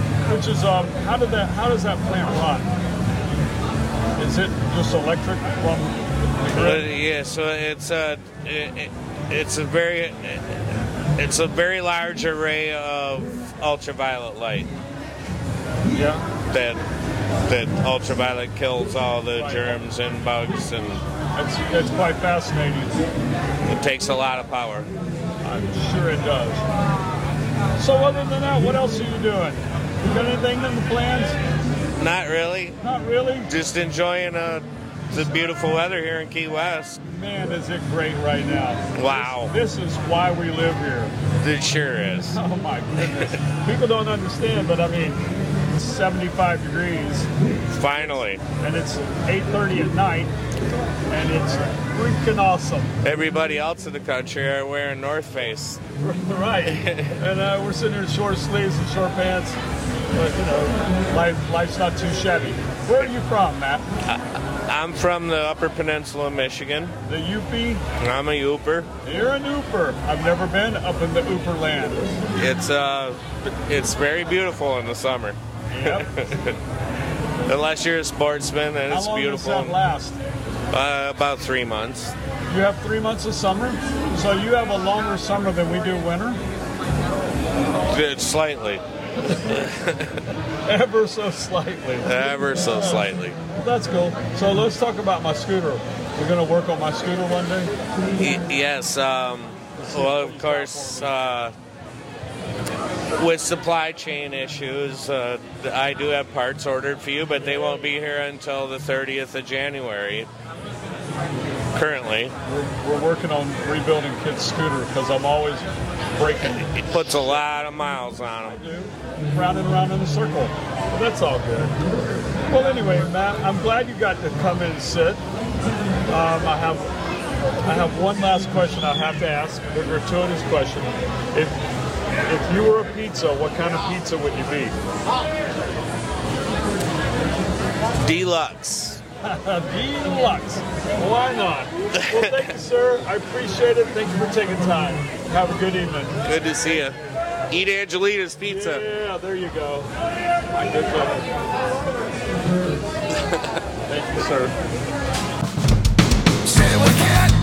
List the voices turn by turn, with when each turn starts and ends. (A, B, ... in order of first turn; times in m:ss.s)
0:00.3-0:02.7 A
0:04.2-0:06.9 A
0:06.6-0:14.7 B
0:15.9-0:16.2 A
0:16.5-0:16.8 B
0:17.5-0:21.0 B
0:19.3-0:19.8 A
0:21.3-0:23.0 A
0:23.6-0:24.9 B
0:25.4-0:26.6 A
0:27.8-0:31.4 A
0:32.0-0:32.8 B
0:32.8-0:33.5 A
0:33.4-0:37.0 B
0:37.1-0:41.1 A
0:38.9-0:39.6 B
0:41.4-0:42.4 B
0:42.3-0:47.3 A
0:47.7-0:48.4 B
0:47.9-0:50.3 A
0:51.1-0:52.9 A
0:53.0-0:55.8 B
0:56.0-0:59.6 A
0:56.6-0:57.2 B
1:00.1-1:03.9 A
1:04.1-1:06.9 B
1:07.1-1:07.8 A
1:08.0-1:08.9 B
1:09.0-1:12.0 A
1:12.4-1:16.6 B
1:15.7-1:16.1 A
1:17.4-1:19.8 B
1:18.9-1:20.2 A
1:20.7-1:22.1 B
1:22.4-1:26.4 A
1:27.8-1:30.2 B
1:30.6-1:37.7 A
1:32.0-1:33.4 B
1:38.2-1:41.6 B
1:39.8-1:41.4 A
1:43.1-1:50.3 B
1:47.4-1:47.9 A
1:51.7-1:52.4 B
1:52.4-1:57.4 A
1:56.4-1:58.6 B
1:58.4-2:01.8 A
2:02.5-2:05.2 A
2:06.1-2:06.9 A
2:07.6-2:11.6 A
2:12.2-2:14.8 A
2:18.0-2:19.0 B
2:19.2-2:26.9 A
2:21.9-2:22.5 B
2:26.2-2:27.0 B
2:27.5-2:28.8 B
2:28.4-2:29.9 A
2:30.5-2:31.4 A
2:33.9-2:34.5 A